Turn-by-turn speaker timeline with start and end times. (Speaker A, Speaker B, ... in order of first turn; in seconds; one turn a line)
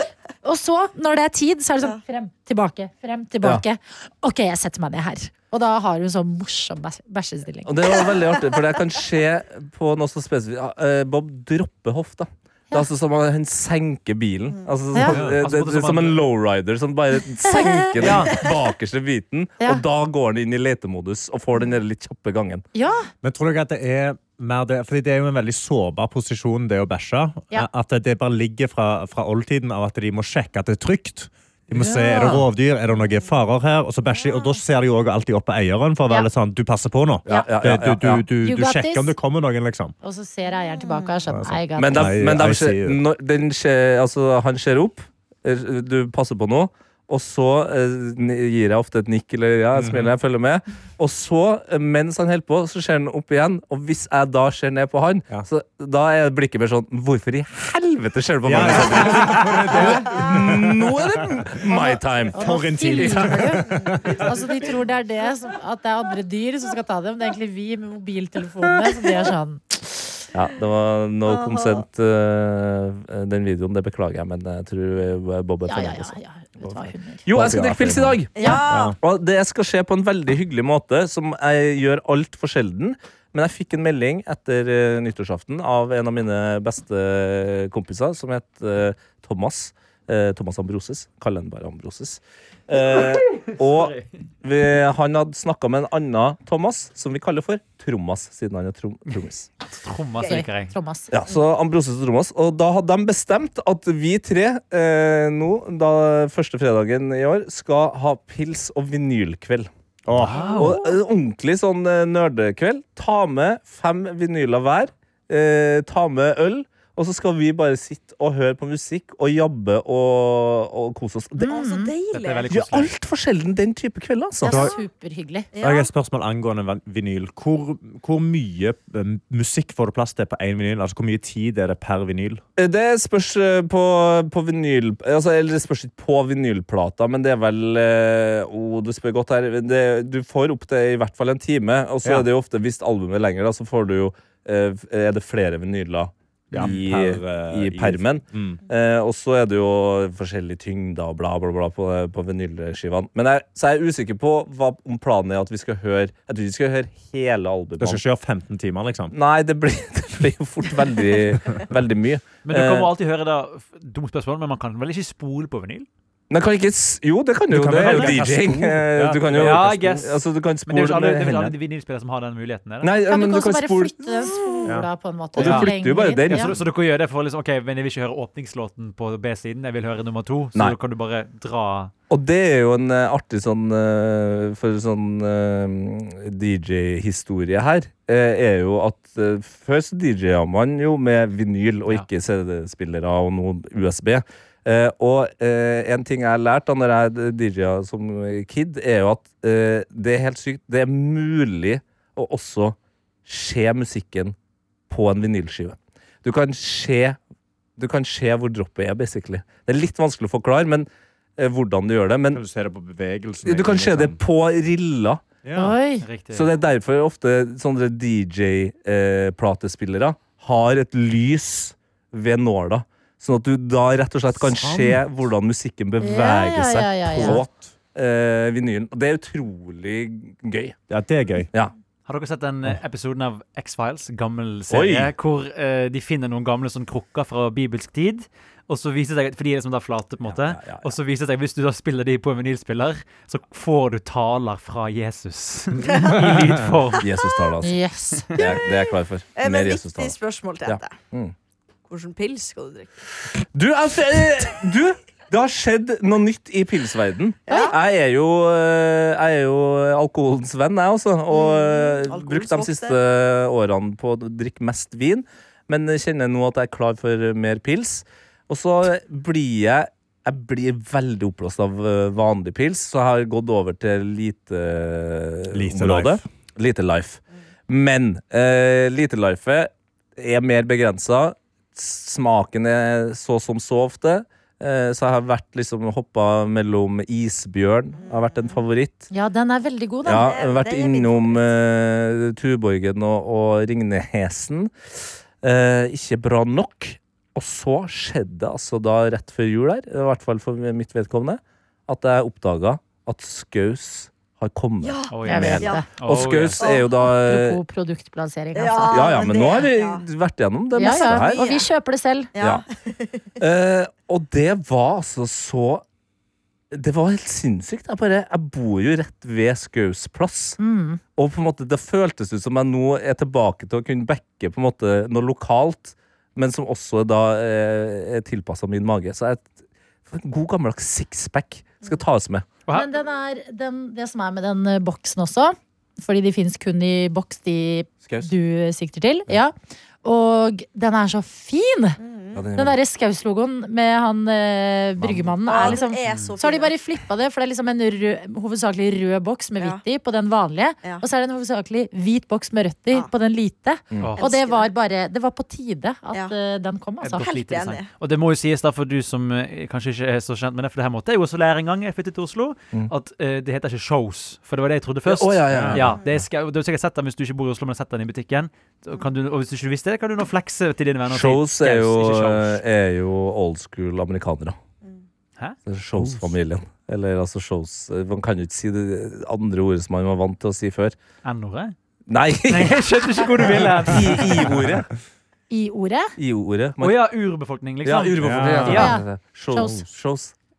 Speaker A: 0.4-7.7
Speaker B: 7.7-22.6
Speaker C: 15.1-16.3
Speaker D: 15.1-15.4
Speaker A: 17.5-17.7
Speaker E: 17.5-18.5
Speaker C: 18.0-18.4
Speaker A: 22.7-23.1
Speaker D: 23.2-39.9
Speaker A: 31.8-32.4
Speaker E: 34.1-34.6
Speaker B: 37.2-38.3
Speaker A: 37.3-37.5
Speaker A: 38.4-39.1
Speaker A: 40.0-42.1
Speaker E: 40.7-41.1
Speaker D: 41.3-43.0
Speaker B: 41.8-62.4
Speaker D: 49.7-50.1
Speaker D: 58.4-61.2
Speaker A: 61.7-70.2
Speaker D: 62.4-64.3
Speaker E: 63.7-64.2
Speaker B: 70.3-99.5
Speaker E: 71.2-71.8
Speaker A: 75.7-77.2
Speaker D: 77.3-79.0
Speaker E: 78.3-79.0
Speaker C: 93.3-94.1
Speaker C: 99.7-100.7
Speaker A: 100.2-101.1
Speaker B: 101.1-109.7
Speaker D: 110.1-110.5
Speaker C: 110.2-110.8
Speaker B: 110.5-121.5
Speaker A: 121.4-121.9
Speaker E: 121.5-122.5
Speaker C: 122.1-122.9
Speaker B: 122.5-124.7
Speaker A: 124.4-125.5
Speaker D: 124.5-124.7
Speaker E: 125.5-125.9
Speaker D: 125.6-132.4
Speaker B: 132.6-158.0
Speaker D: 146.5-148.6
Speaker D: 157.8-159.1
Speaker B: 159.1-162.9
Speaker C: 162.4-165.9
Speaker B: 166.3-171.5
Speaker D: 167.5-169.9
Speaker C: 167.8-168.2
Speaker C: 169.3-172.9
Speaker B: 172.8-174.6
Speaker A: 173.1-176.5
Speaker B: 175.3-176.6
Speaker C: 175.4-175.7
Speaker C: 176.3-181.9
Speaker B: 182.1-204.3
Speaker B: 204.9-207.2
Speaker B: 207.8-212.4
Speaker D: 212.3-214.2
Speaker B: 213.4-215.2
Speaker D: 215.4-215.7
Speaker A: 215.5-216.0
Speaker C: 216.0-216.5
Speaker B: 216.3-230.8
Speaker D: 224.4-225.0
Speaker A: 226.0-227.4
Speaker D: 227.2-227.5
Speaker D: 230.9-231.5
Speaker C: 232.1-247.1
Speaker B: 234.7-235.1
Speaker B: 240.3-240.9
Speaker E: 245.8-246.3
Speaker B: 247.0-247.8
Speaker A: 247.6-248.3
Speaker B: 248.3-250.1
Speaker E: 248.4-251.0
Speaker B: 250.7-251.3
Speaker E: 251.9-252.9
Speaker B: 253.5-289.1
Speaker E: 257.5-257.8
Speaker A: 257.5-257.7
Speaker E: 261.3-263.0
Speaker D: 275.5-276.2
Speaker E: 288.0-288.6
Speaker A: 289.1-290.3
Speaker B: 290.1-294.7
Speaker E: 290.1-291.5
Speaker B: 295.4-307.6
Speaker E: 304.8-305.9
Speaker C: 305.1-306.6
Speaker A: 305.2-305.9
Speaker E: 306.6-306.9
Speaker A: 307.0-309.2
Speaker E: 308.5-310.0
Speaker B: 308.9-311.4
Speaker A: 310.7-312.3
Speaker E: 310.8-311.7
Speaker E: 312.3-313.3
Speaker B: 312.4-312.6
Speaker B: 313.4-315.8
Speaker B: 316.7-320.6
Speaker A: 320.6-321.0
Speaker B: 321.1-329.5
Speaker B: 330.1-332.4
Speaker A: 332.7-342.0
Speaker B: 338.0-338.3
Speaker E: 342.0-342.5
Speaker B: 342.3-342.8
Speaker A: 342.5-357.4
Speaker E: 345.5-346.7
Speaker E: 354.2-354.7
Speaker C: 357.0-372.6
Speaker E: 357.2-357.9
Speaker B: 365.1-366.0
Speaker D: 365.5-365.8
Speaker B: 371.1-374.6
Speaker B: 375.7-380.9
Speaker D: 376.0-376.2
Speaker C: 381.2-381.7
Speaker B: 382.1-382.9
Speaker C: 382.5-384.6
Speaker B: 383.8-384.9
Speaker A: 385.5-386.1
Speaker B: 386.2-386.9
Speaker C: 386.8-388.9
Speaker B: 387.8-390.3
Speaker D: 388.2-388.9
Speaker A: 388.6-389.8